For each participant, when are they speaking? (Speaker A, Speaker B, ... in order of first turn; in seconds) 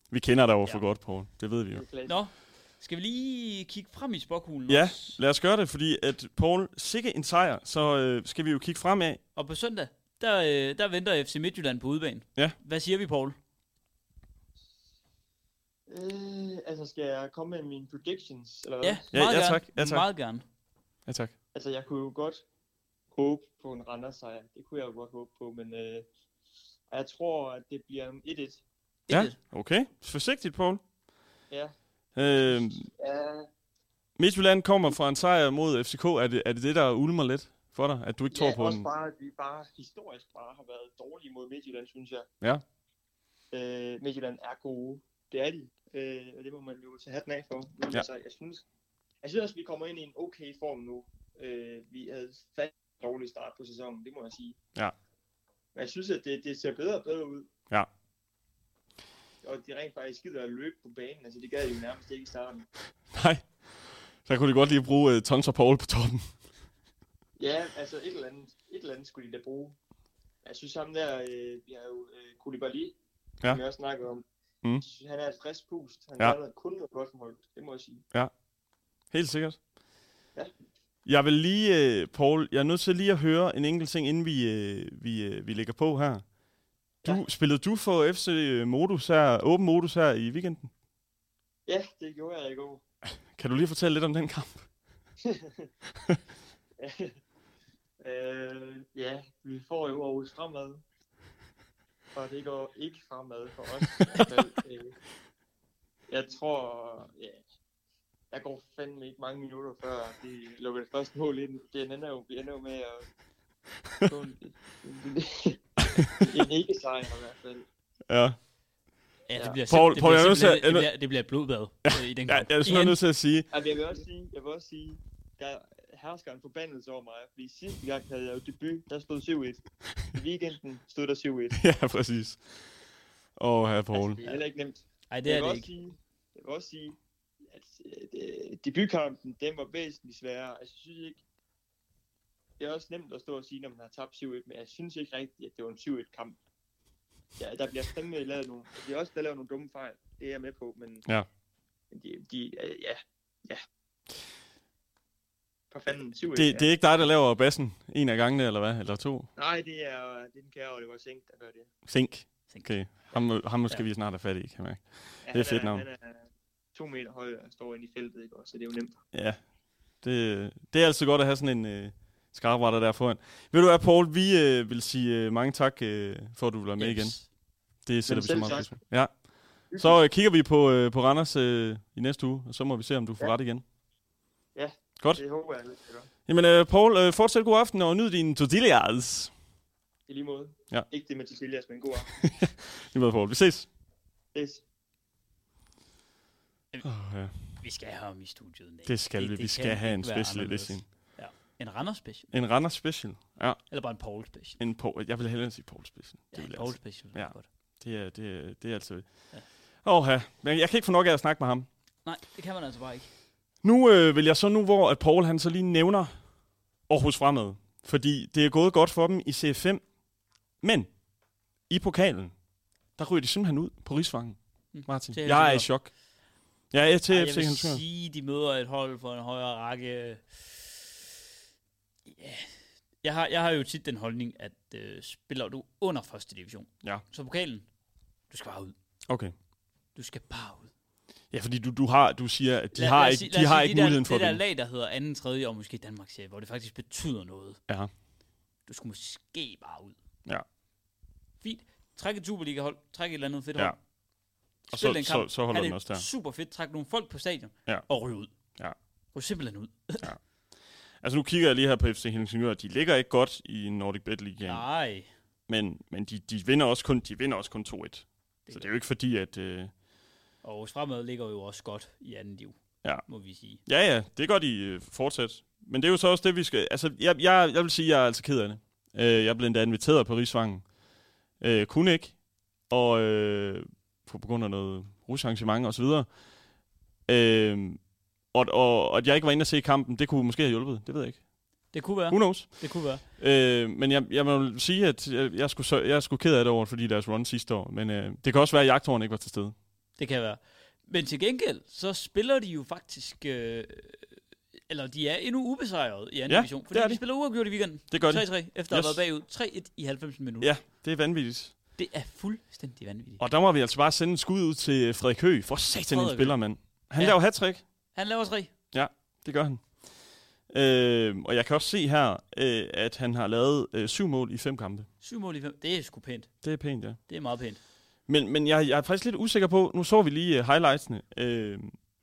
Speaker A: 0.1-1.9, 4.7-9.2, 19.1-20.1, 21.1-21.3, 29.1-30.8, 32.2-32.9, 34.2-38.9, 63.1-66.3, 79.1-79.6, 81.1-86.2, 87.0-90.7, 93.3-94.7, 115.8-116.4, 118.1-118.4, 119.7-120.9, 121.8-123.5, 131.6-132.7, 133.4-134.4, 156.3-159.3, 161.9-165.8, 169.1-169.4, 170.0-177.2, 177.8-179.2, 179.7-183.6, 186.3-189.3, 192.2-193.7, 196.8-197.6, 198.9-200.9, 202.3-203.6, 204.6-209.1, 209.8-211.7, 213.6-216.1, 216.9-219.8, 220.6-220.9, 221.7-222.3, 223.0-225.9, 226.7-227.8, 239.1-239.3, 241.3-244.4, 254.7-256.1, 261.0-264.6, 265.5-269.7, 273.6-280.7, 281.4-282.2, 282.7-286.1, 287.1-287.8, 288.3-291.2, 292.1-299.6, 306.3-307.1, 307.9-309.0, 310.4-311.6, 313.2-317.6, 318.7-319.8, 320.5-324.9, 326.4-327.0, 328.1-331.7
Speaker B: 1.7-2.2, 15.9-19.1, 21.5-22.4, 23.1-26.1, 26.9-28.6, 31.5-33.5, 38.3-42.3, 43.5-48.6, 49.2-54.6, 55.8-57.5, 59.4-62.7, 67.4-69.8, 70.5-73.0, 73.5-74.2, 74.8-78.0, 91.7-92.8, 95.2-95.7, 96.8-97.2, 98.0-100.8, 102.2-105.0, 106.1-107.4, 108.3-113.1, 114.0-117.7, 123.5-131.6, 133.9-137.0, 137.5-141.2, 142.6-146.4, 147.4-151.1, 151.9-153.6, 155.7-156.7, 159.4-161.7, 165.2-169.0, 178.1-178.8, 179.7-180.0, 184.6-186.1, 190.1-192.2, 194.3-194.6
Speaker C: 2.1-5.2, 9.3-13.4, 18.8-20.4, 29.1-29.4, 119.3-123.0, 135.1-135.7, 176.8-177.3, 197.5-202.3, 203.7-204.6, 206.3-207.5, 212.1-213.1, 224.7-225.7, 227.1-230.9, 232.1-237.7, 238.3-238.7, 239.9-240.7, 242.8-247.6, 248.7-250.0, 251.4-253.8, 254.7-258.3, 259.1-260.1, 264.4-265.1, 270.4-273.6, 291.7-293.0, 300.0-310.5, 311.8-313.2, 315.9-316.4, 317.9-318.5, 325.0-326.3, 327.1-327.6